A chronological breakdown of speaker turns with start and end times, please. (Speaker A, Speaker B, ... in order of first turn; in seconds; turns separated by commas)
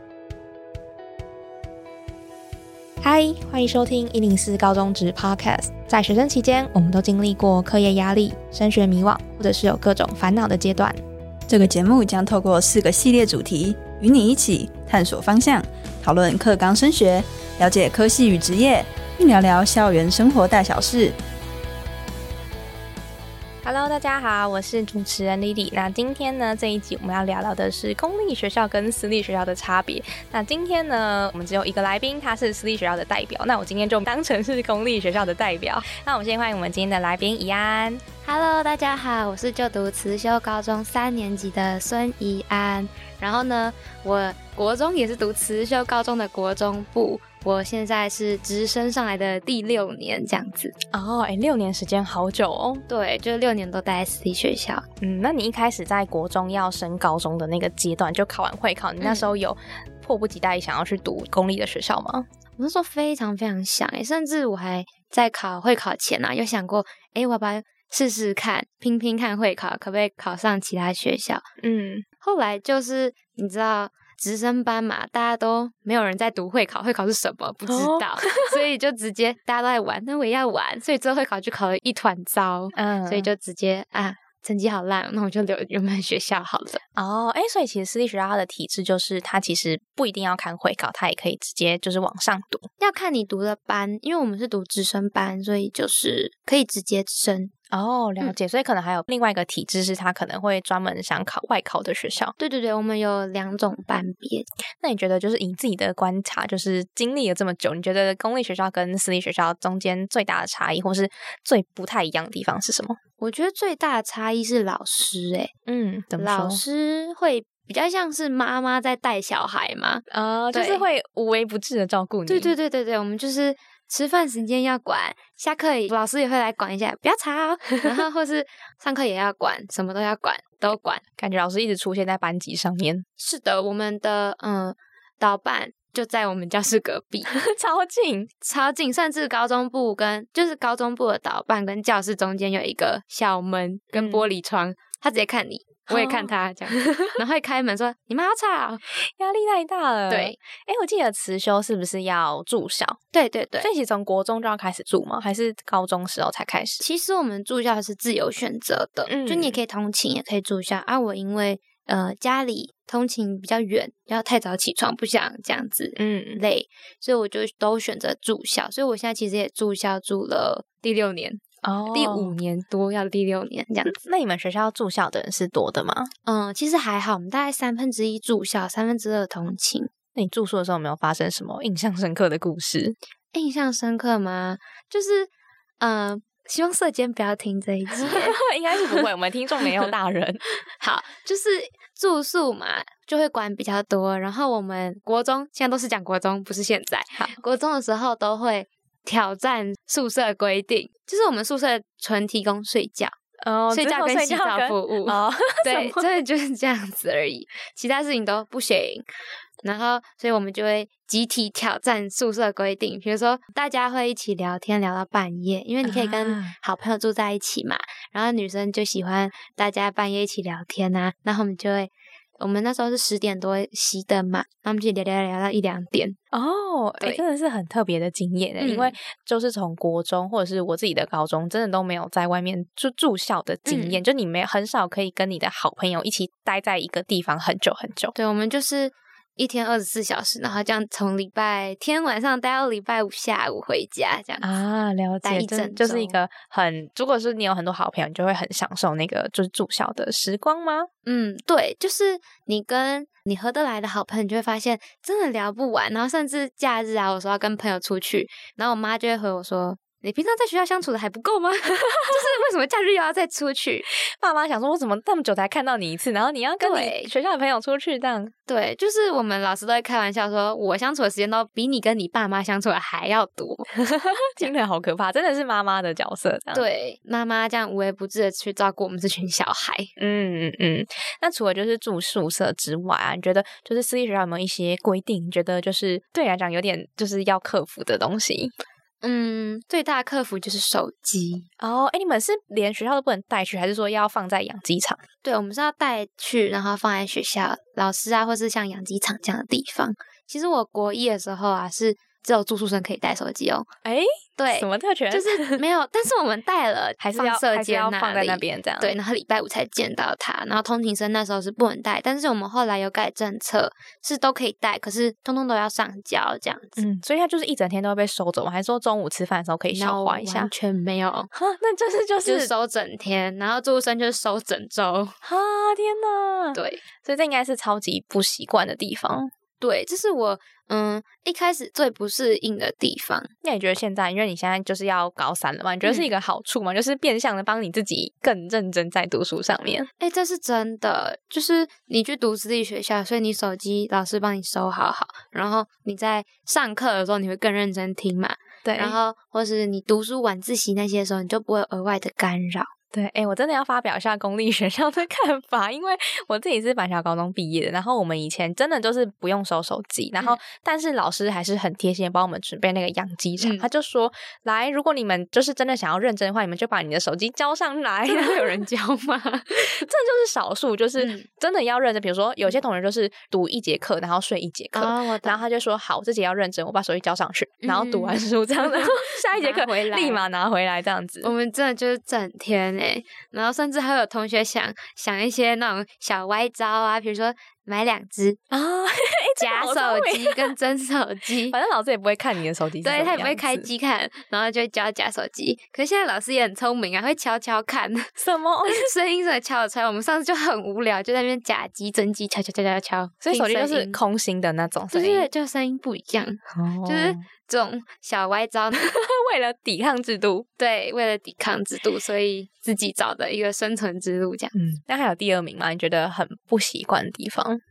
Speaker A: 3.0-11.0, Speaker B: 11.5-21.2, Speaker A: 23.6-38.0, Speaker C: 38.2-50.8, Speaker A: 50.9-52.9, Speaker C: 52.9-54.9, Speaker A: 55.0-62.3, Speaker C: 59.0-59.3, Speaker C: 62.6-71.5, Speaker A: 71.6-72.0, Speaker C: 72.2-86.8, Speaker A: 77.7-78.6, Speaker A: 82.7-83.3, Speaker A: 87.0-92.7, Speaker C: 92.8-97.5, Speaker A: 97.7-102.3, Speaker C: 102.4-104.5, Speaker A: 104.8-113.0, Speaker C: 113.2-115.5, Speaker A: 115.7-116.6, Speaker C: 116.2-120.8, Speaker A: 120.1-122.5, Speaker C: 122.3-131.0, Speaker A: 131.2-133.1, Speaker C: 133.2-137.4, Speaker A: 137.3-138.3, Speaker C: 138.4-148.8, Speaker A: 143.9-144.2, Speaker A: 145.9-147.1, Speaker A: 149.2-153.0, Speaker C: 150.1-150.4, Speaker C: 153.1-153.7, Speaker A: 153.6-156.8, Speaker C: 156.8-174.0, Speaker A: 159.1-159.6, Speaker A: 166.0-166.4, Speaker A: 171.6-172.4, Speaker A: 173.9-176.1, Speaker C: 176.3-179.9, Speaker A: 180.2-183.0, Speaker C: 183.3-189.1, Speaker A: 188.0-190.4, Speaker C: 190.8-203.2, Speaker A: 203.4-206.0, Speaker C: 203.7-209.1, Speaker C: 209.6-226.2, Speaker A: 215.8-216.5, Speaker A: 226.3-238.1, Speaker C: 228.6-228.9, Speaker C: 233.7-234.0, Speaker C: 238.2-244.5, Speaker A: 244.4-250.9, Speaker C: 245.2-246.2, Speaker C: 251.1-263.9, Speaker A: 261.9-262.2, Speaker A: 264.0-268.3, Speaker C: 266.6-267.1, Speaker C: 268.5-273.7, Speaker A: 273.8-276.6, Speaker C: 276.5-279.9, Speaker A: 280.0-288.5, Speaker C: 289.0-291.5, Speaker A: 291.6-295.0, Speaker C: 295.2-303.7, Speaker A: 303.9-305.6, Speaker C: 304.4-316.8, Speaker A: 307.0-308.9, Speaker A: 316.8-320.5, Speaker C: 319.7-321.3, Speaker A: 321.3-322.5, Speaker C: 322.2-325.2, Speaker A: 325.2-329.3, Speaker C: 326.5-326.8, Speaker C: 329.6-333.3, Speaker A: 333.4-339.9, Speaker C: 340.0-352.7, Speaker A: 348.6-349.0, Speaker A: 352.9-368.6, Speaker C: 363.4-363.7, Speaker C: 368.1-369.8, Speaker A: 369.8-381.3, Speaker C: 371.0-371.3, Speaker C: 374.7-375.4, Speaker C: 377.6-380.2, Speaker C: 381.2-388.4, Speaker A: 388.5-390.5, Speaker C: 389.4-391.6, Speaker A: 391.5-393.7, Speaker C: 392.8-398.1, Speaker A: 398.2-398.9, Speaker C: 398.6-404.0, Speaker A: 403.2-405.3, Speaker C: 404.9-408.9, Speaker A: 406.6-407.2, Speaker A: 408.8-410.5, Speaker C: 410.6-414.5, Speaker A: 414.5-417.6